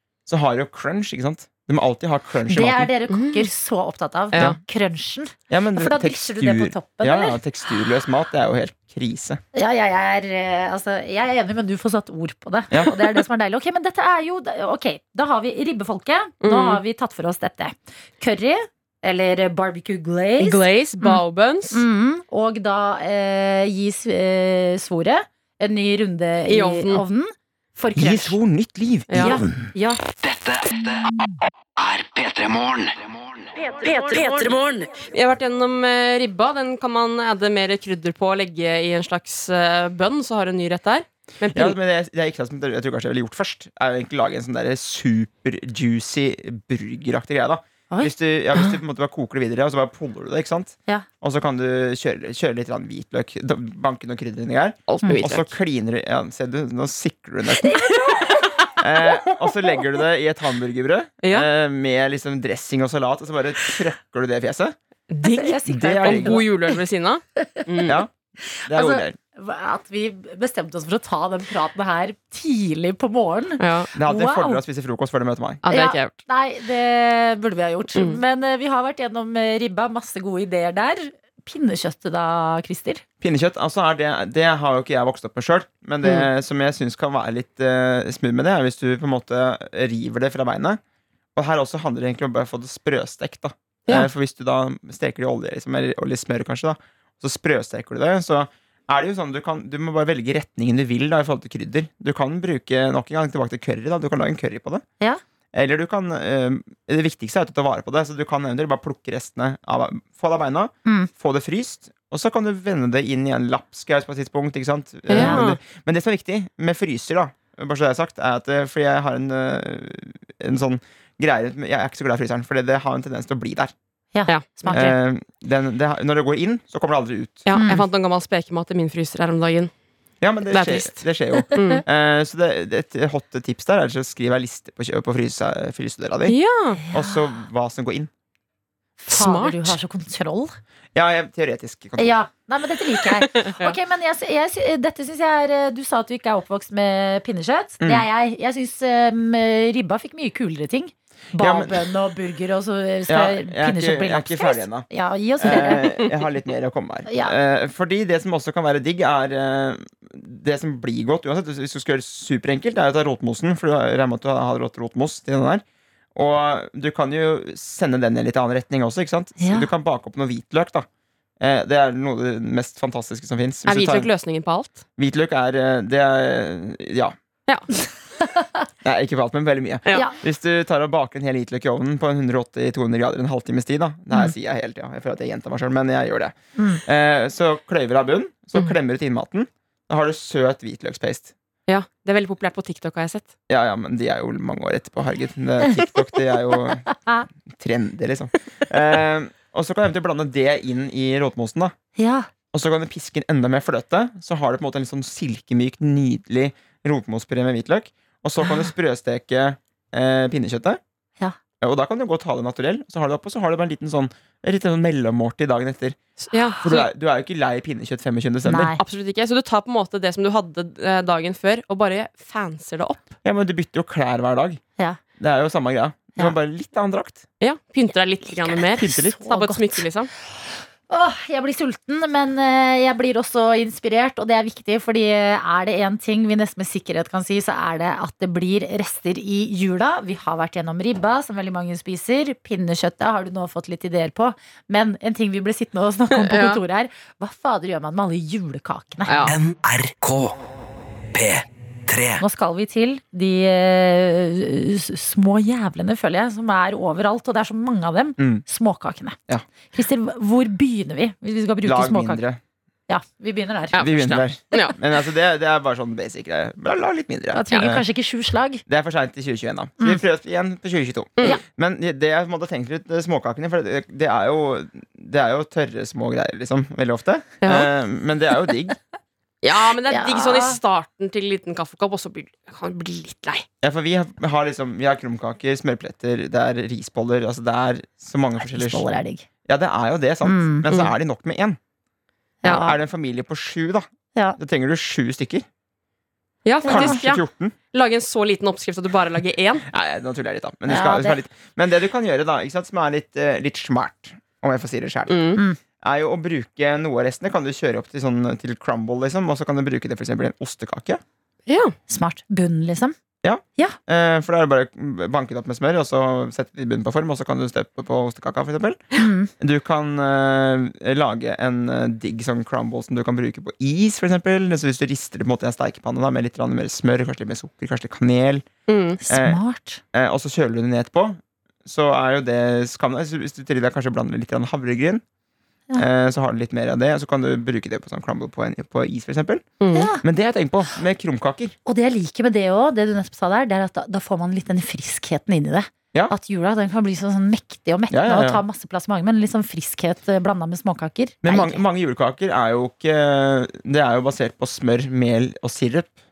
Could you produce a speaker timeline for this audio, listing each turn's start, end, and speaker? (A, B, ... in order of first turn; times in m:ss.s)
0:00.3-0:02.9 A
0:02.5-0:07.4 B
0:03.1-0:03.5 C
0:04.3-0:04.6 C
0:05.5-0:09.4 A
0:09.6-0:21.2 B
0:12.7-0:13.0 A
0:16.4-0:16.8 C
0:20.4-0:21.8 C
0:21.7-0:28.4 B
0:26.5-0:27.0 C
0:28.0-0:29.7 A
0:29.1-0:29.4 C
0:29.2-0:30.0 B
0:30.2-0:31.1 D
0:31.8-0:34.9 D
0:35.1-0:41.8 C
0:41.6-0:57.9 A
0:47.9-0:48.8 B
0:54.9-0:55.5 C
0:57.6-0:58.5 B
0:58.8-1:04.8 A
1:01.2-1:01.5 C
1:05.1-1:08.0 C
1:05.2-1:06.5 B
1:05.7-1:06.4 A
1:07.4-1:07.9 B
1:07.9-1:08.1 A
1:08.6-1:09.2 A
1:08.7-1:14.6 B
1:13.6-1:13.9 C
1:14.0-1:15.6 A
1:15.6-1:16.1 C
1:15.7-1:23.0 B
1:18.0-1:18.2 C
1:23.2-1:30.8 A
1:26.0-1:26.3 C
1:31.4-1:44.8 A
1:45.5-2:03.7 A
1:55.1-1:55.6 C
1:55.1-1:55.4 B
2:04.1-2:05.0 B
2:04.3-2:04.8 C
2:04.7-2:07.6 A
2:07.5-2:09.7 C
2:07.6-2:07.8 B
2:10.2-2:16.4 A
2:10.5-2:11.8 C
2:16.3-2:16.8 C
2:16.9-2:17.2 B
2:16.9-2:18.1 A
2:19.0-2:20.6 B
2:19.1-2:19.8 C
2:21.0-2:22.2 A
2:22.0-2:36.0 B
2:23.3-2:23.8 C
2:27.8-2:28.1 A
2:31.4-2:31.8 A
2:33.1-2:34.9 A
2:35.4-2:45.6 A
2:35.6-2:35.8 C
2:37.1-2:37.3 B
2:46.2-2:50.9 A
2:49.4-2:49.7 B
2:51.4-2:54.1 A
2:53.7-2:54.8 C
2:55.0-2:57.2 A
2:58.8-3:11.3 A
3:11.7-3:13.3 C
3:13.5-3:16.9 A
3:17.5-3:21.7 A
3:22.0-3:22.3 B
3:22.5-3:30.8 A
3:31.6-3:36.0 A
3:36.3-3:36.9 C
3:36.6-3:38.8 A
3:38.4-3:38.8 B
3:38.8-3:43.2 C
3:43.2-3:44.6 A
3:45.2-3:47.2 A
3:47.4-3:50.1 C
3:48.8-3:49.2 A
3:49.1-3:49.8 B
3:50.9-4:09.3 B
4:06.1-4:06.6 C
4:09.1-4:09.4 C
4:09.2-4:10.4 D
4:11.1-4:12.2 D
4:12.2-4:19.2 B
4:18.2-4:18.4 A
4:19.7-4:22.2 B
4:21.6-4:22.4 A
4:22.9-4:23.9 B
4:23.7-4:24.8 C
4:23.8-4:27.8 A
4:27.3-4:28.6 B
4:28.7-4:38.8 A
4:37.4-4:37.7 C
4:39.4-4:43.5 C
4:39.9-4:40.6 B
4:43.6-4:51.6 A
4:48.4-4:49.3 B
4:50.2-4:50.6 B
4:52.4-4:52.8 B
4:52.5-4:53.9 A
4:54.4-4:55.5 A
4:56.4-4:57.2 C
4:56.6-4:57.0 B
4:56.6-4:57.6 A
4:57.7-4:59.6 C
4:59.7-5:11.0 A
5:00.7-5:01.2 B
5:05.1-5:05.4 C
5:11.5-5:11.8 C
5:11.9-5:13.0 B
5:13.2-5:18.8 A
5:19.0-5:19.3 B
5:19.4-5:28.5 A
5:28.7-5:29.0 C
5:29.0-5:29.8 B
5:29.1-5:29.4 A
5:29.9-5:35.0 A
5:35.8-5:41.6 A
5:39.6-5:39.9 C
5:39.7-5:40.0 B
5:41.7-5:51.6 B
5:47.9-5:48.4 A
5:51.2-5:56.0 A